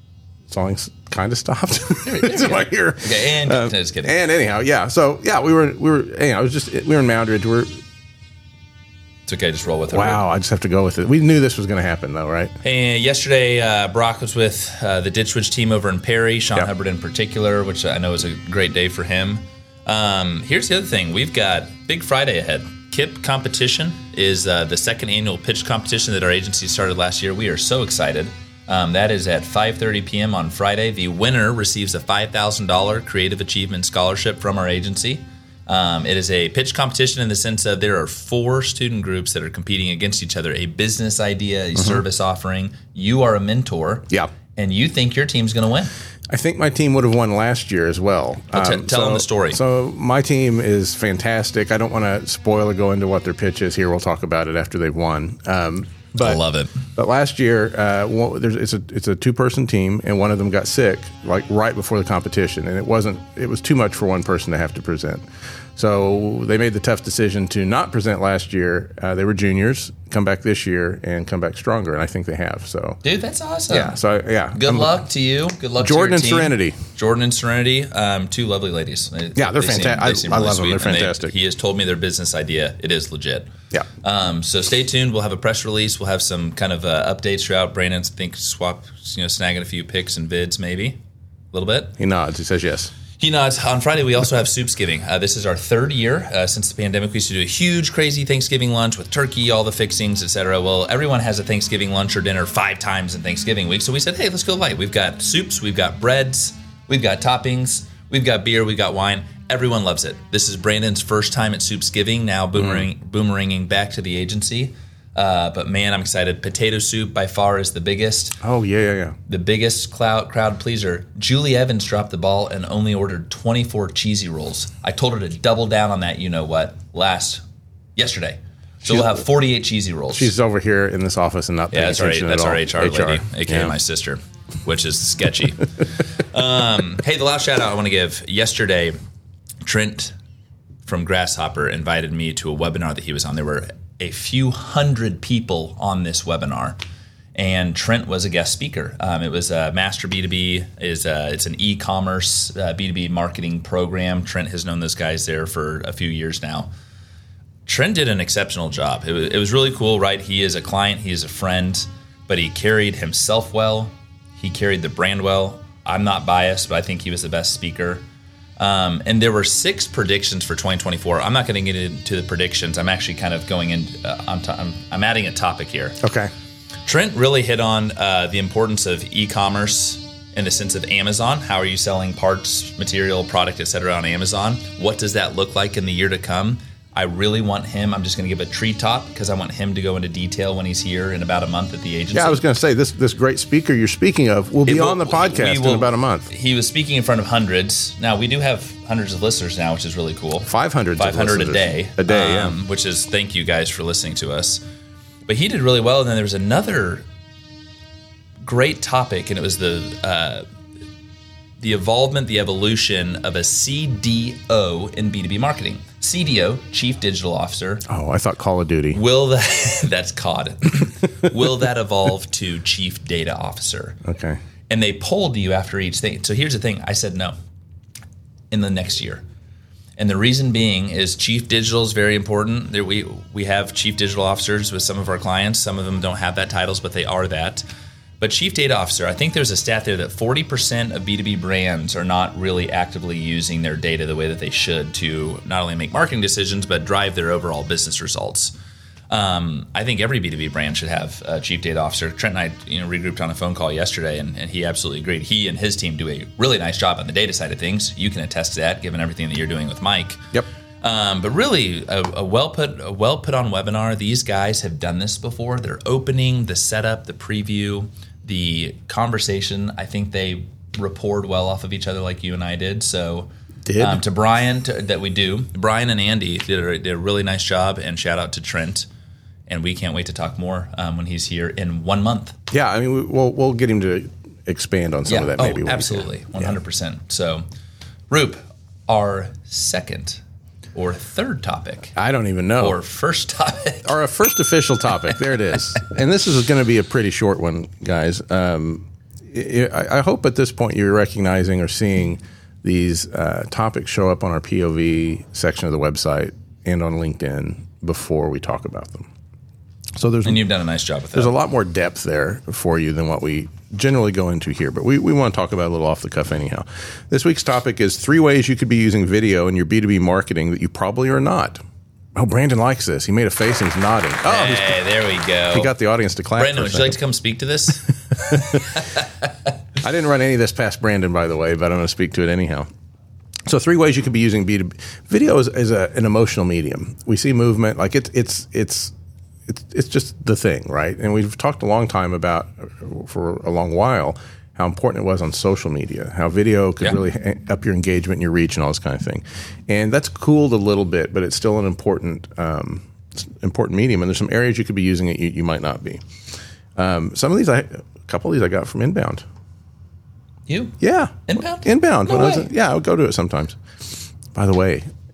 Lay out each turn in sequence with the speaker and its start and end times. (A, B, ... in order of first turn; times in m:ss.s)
0:00.5-0:07.8 A
0:02.0-0:04.2 B
0:09.3-0:10.2 B
0:09.9-0:12.5 A
0:12.6-0:45.9 B
0:41.8-0:42.0 A
0:46.3-0:56.4 A
0:48.5-0:49.6 B
0:56.2-0:56.8 B
0:57.0-1:05.2 A
1:05.8-1:13.0 A
1:13.0-1:14.0 B
1:13.7-1:15.0 A
1:14.5-1:23.5 B
1:15.8-1:16.8 A
1:19.4-1:21.3 A
1:24.0-1:31.0 B
1:31.5-1:31.9 B
1:32.0-1:32.9 A
1:33.2-1:58.4 B
1:52.6-1:52.9 A
1:58.4-1:59.2 A
1:59.3-2:07.4 B
2:08.0-2:10.3 B
2:08.8-2:09.2 A
2:10.1-2:13.7 A
2:11.7-2:15.8 B
2:16.3-2:18.9 B
2:19.6-2:20.1 B
2:20.8-2:26.8 B
2:27.3-2:36.7 B
2:37.6-2:48.0 B
2:48.6-2:56.0 B
2:56.0-2:56.3 A
2:56.8-3:12.4 B
3:12.1-3:16.3 A
3:14.6-3:24.6 B
3:20.4-3:22.6 A
3:25.2-3:27.0 B
3:28.4-3:30.4 B
3:31.6-3:37.8 B
3:37.9-3:39.0 A
3:38.9-3:44.0 B
3:44.0-3:44.4 A
3:44.7-3:47.3 B
3:48.5-3:49.2 B
3:50.0-3:57.6 B
3:58.2-4:08.5 B
4:09.1-4:20.2 B
4:20.8-4:38.9 B
4:33.6-4:34.0 A
4:39.5-4:42.4 B
4:42.5-4:46.5 A
4:45.1-4:47.4 B
4:48.1-4:50.2 B
4:50.7-4:51.9 B
4:51.9-4:52.8 A
4:52.6-4:54.0 B
4:53.8-5:09.1 A
5:10.0-5:10.4 A
5:10.2-5:11.3 B
5:11.1-5:21.6 A
5:22.1-5:24.8 A
5:24.2-5:25.7 B
5:25.5-5:27.0 A
5:26.3-5:28.9 B
5:28.3-5:28.6 A
5:29.8-5:32.7 A
5:33.4-5:38.9 A
5:39.5-5:56.0 A
5:56.8-5:59.2 A
6:00.5-6:00.8 B
6:00.8-6:03.6 A
6:01.3-6:02.5 B
6:04.3-6:04.8 A